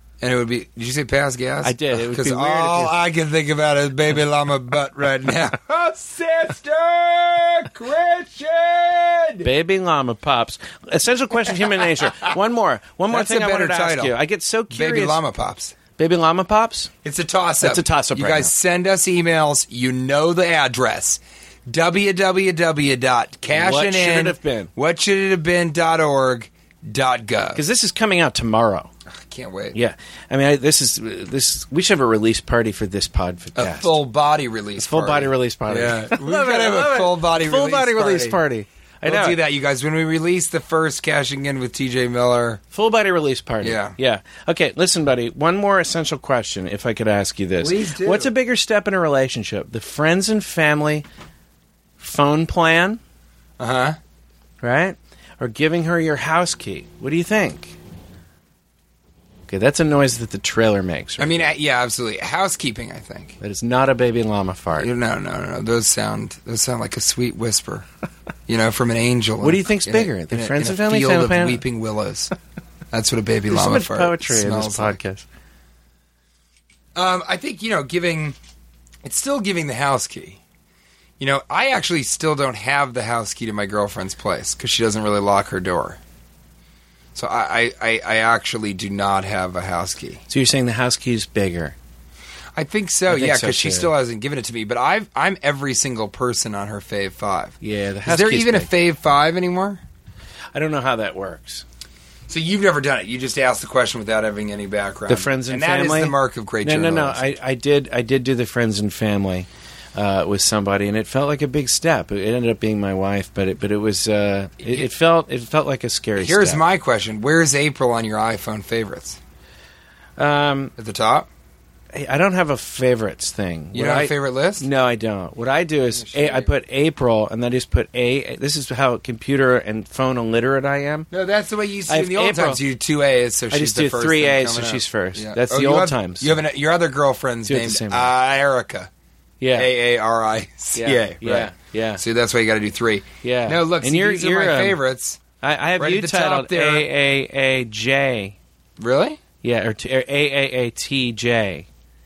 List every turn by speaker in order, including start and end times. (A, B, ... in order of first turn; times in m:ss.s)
0:00.2-0:09.5 A
0:01.6-0:03.0 B
0:09.4-0:15.2 B
0:13.1-0:14.1 A
0:14.7-0:15.7 A
0:16.0-0:16.9 B
0:17.0-0:27.6 A
0:17.6-0:18.5 B
0:23.5-0:24.7 B
0:27.5-0:28.9 B
0:29.1-0:29.8 A
0:29.7-0:33.9 B
0:33.6-0:38.4 A
0:34.8-0:39.4 B
0:39.0-0:42.6 A
0:42.7-0:51.0 B
0:43.6-0:43.9 A
0:47.6-0:48.3 A
0:52.0-0:53.0 B
0:53.6-0:54.0 A
0:54.6-0:57.8 B
0:59.5-1:01.5 B
1:01.2-1:03.4 A
1:03.4-1:04.9 B
1:04.8-1:07.8 A
1:08.5-1:12.3 A
1:09.4-1:11.6 B
1:12.9-1:15.0 A
1:13.5-1:15.2 B
1:16.9-1:18.4 A
1:19.0-1:20.4 A
1:21.2-1:26.0 A
1:27.1-1:30.2 A
1:30.3-1:31.7 B
1:32.5-1:39.8 A
1:33.1-1:33.9 B
1:37.6-1:38.7 B
1:40.5-1:41.6 B
1:42.3-1:47.2 A
1:45.1-1:56.6 B
1:56.2-1:59.2 A
2:00.2-2:00.7 B
2:00.8-2:01.3 A
2:01.9-2:11.1 B
2:03.7-2:04.6 A
2:05.9-2:06.5 A
2:11.1-2:18.9 A
2:11.9-2:12.6 B
2:13.5-2:16.4 B
2:17.4-2:18.1 B
2:19.4-2:19.7 B
2:19.5-2:25.2 A
2:20.7-2:22.0 B
2:23.2-2:24.8 B
2:25.4-2:28.4 B
2:25.8-2:26.9 A
2:28.8-2:29.2 A
2:29.4-2:31.7 B